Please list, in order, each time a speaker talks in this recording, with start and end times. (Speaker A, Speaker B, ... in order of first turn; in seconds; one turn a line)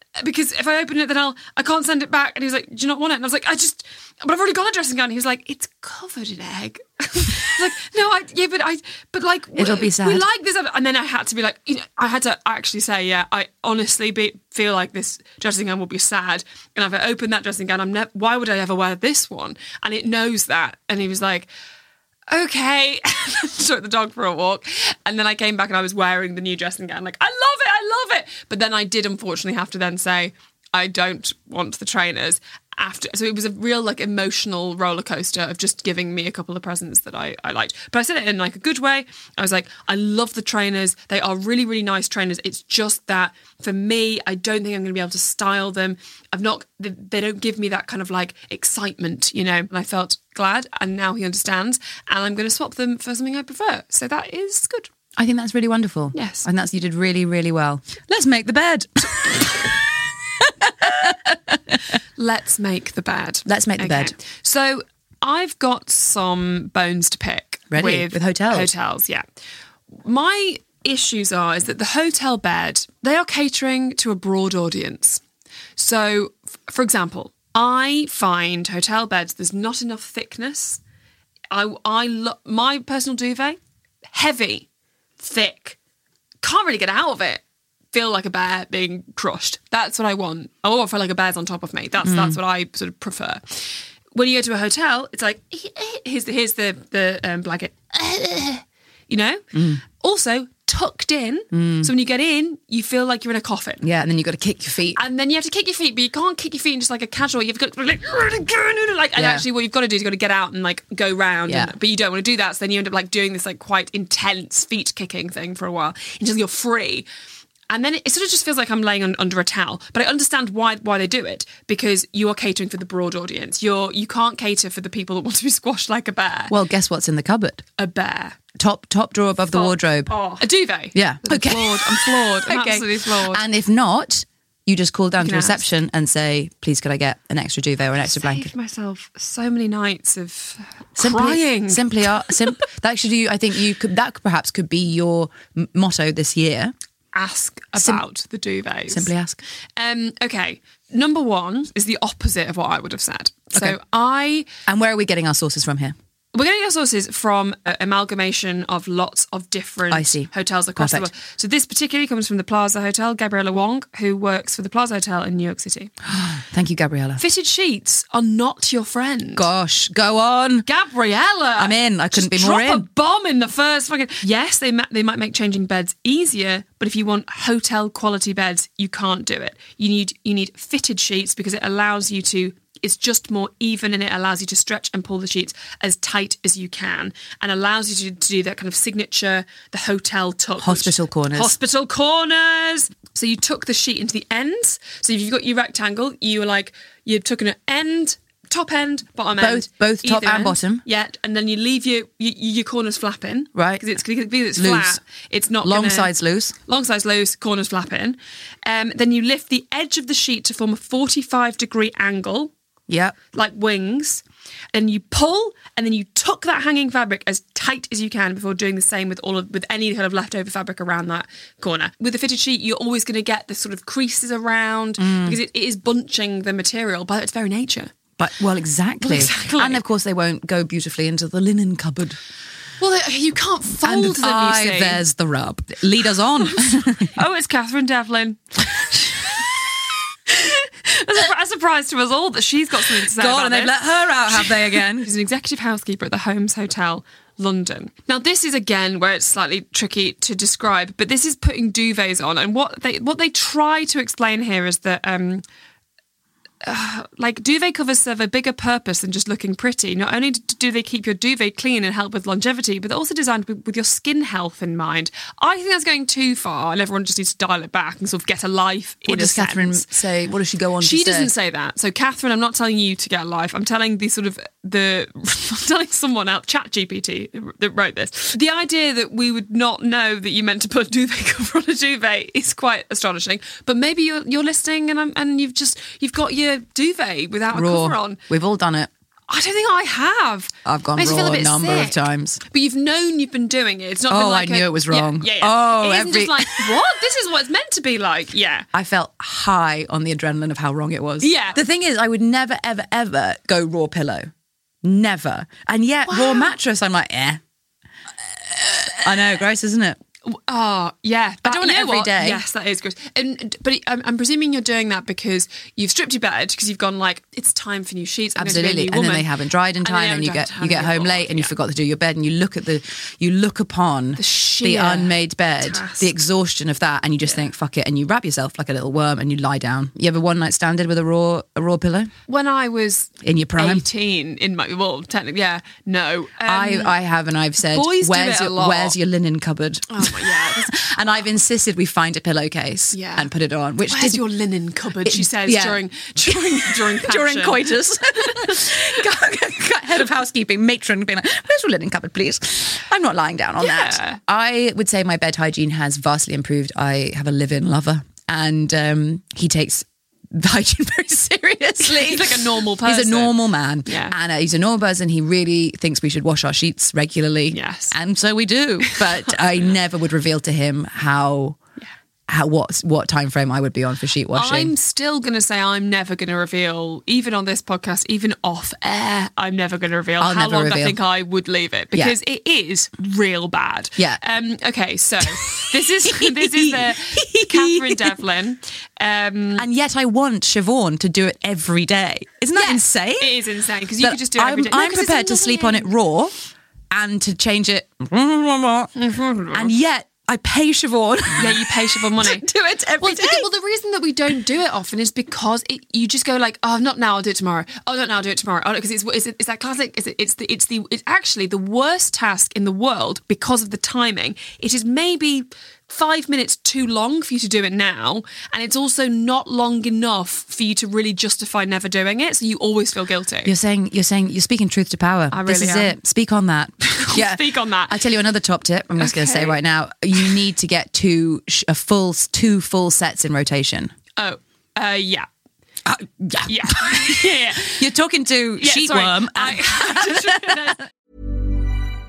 Speaker A: 0.1-21.5
Speaker B: 9.6-10.2
Speaker A: 22.3-54.9
Speaker B: 55.2-59.7
Speaker A: 56.1-56.5
Speaker B: 60.4-61.8
Speaker A: 62.2-69.2
Speaker B: 63.5-64.1
Speaker B: 67.7-68.7
Speaker A: 69.9-75.2
Speaker A: 75.8-80.8
Speaker A: 81.5-83.6
Speaker A: 84.1-84.7
Speaker A: 85.2-85.8
Speaker A: 86.4-93.4
Speaker B: 92.0-92.4
Speaker A: 94.1-103.9
Speaker B: 99.5-99.8
Speaker B: 101.5-101.9
Speaker B: 103.8-105.0
Speaker A: 105.0-117.0
Speaker B: 109.1-109.5
Speaker B: 111.5-111.7
Speaker A: 117.7-126.5
Speaker B: 126.5-127.6
Speaker A: 127.8-128.4
Speaker B: 128.6-130.1
Speaker A: 129.5-133.4
Speaker B: 130.9-138.5
Speaker A: 135.2-135.7
Speaker A: 138.1-142.5
Speaker B: 141.0-146.7
Speaker A: 147.1-149.1
Speaker B: 147.8-148.0
Speaker B: 148.9-149.4
Speaker A: 149.8-154.5
Speaker B: 154.7-155.9
Speaker A: 156.3-165.9
Speaker B: 159.9-161.1
Speaker B: 166.1-167.2
Speaker A: 167.2-169.5
Speaker B: 169.3-170.7
Speaker A: 170.7-206.1
Speaker B: 171.6-172.8
Speaker B: 190.6-191.6
Speaker B: 199.4-200.8
Speaker B: 203.5-203.8
Speaker B: 204.6-205.0
Speaker B: 205.6-206.5
Speaker A: 206.7-212.5
Speaker B: 212.9-213.2
Speaker A: 213.3-227.9
Speaker B: 225.0-225.4
Speaker B: 228.2-232.2
Speaker A: 229.0-229.8
Speaker A: 232.8-235.0
Speaker B: 233.8-237.1
Speaker A: 236.4-239.5
Speaker A: 240.3-243.7
Speaker B: 243.1-245.1
Speaker A: 244.3-255.4
Speaker A: 256.6-269.9
Speaker B: 269.1-271.3
Speaker A: 270.8-288.2
Speaker B: 287.5-288.9
Speaker A: 289.3-298.7
Speaker B: 290.6-292.4
Speaker B: 294.1-296.7
Speaker B: 298.7-304.3
Speaker A: 301.2-301.6
Speaker B: 304.8-307.4
Speaker A: 306.1-306.5
Speaker B: 308.4-310.0
Speaker A: 310.2-319.3
Speaker B: 311.4-312.4
Speaker B: 318.4-332.1
Speaker A: 319.8-321.5
Speaker A: 324.2-326.1
Speaker A: 332.3-336.9
Speaker B: 333.2-333.9
Speaker B: 336.4-344.2
Speaker A: 337.6-338.9
Speaker A: 339.9-340.8
Speaker A: 342.9-343.3
Speaker A: 343.9-347.6
Speaker B: 345.0-371.6
Speaker A: 348.2-348.6
Speaker A: 353.6-354.2
Speaker A: 361.8-364.1
Speaker A: 367.5-367.9
Speaker A: 368.8-369.3
Speaker B: 372.3-374.7
Speaker A: 374.3-389.7
Speaker B: 380.2-381.0
Speaker B: 385.2-388.1
Speaker B: 389.6-393.3
Speaker A: 392.5-395.9
Speaker B: 394.0-396.3
Speaker B: 396.9-398.9
Speaker A: 398.9-399.7
Speaker B: 399.5-403.5
Speaker A: 401.4-423.5
Speaker B: 423.4-433.9
Speaker A: 425.3-425.9
Speaker A: 426.8-428.0
Speaker A: 429.0-429.6
Speaker A: 434.2-435.3
Speaker B: 435.9-440.7
Speaker A: 436.4-437.9
Speaker A: 438.6-440.9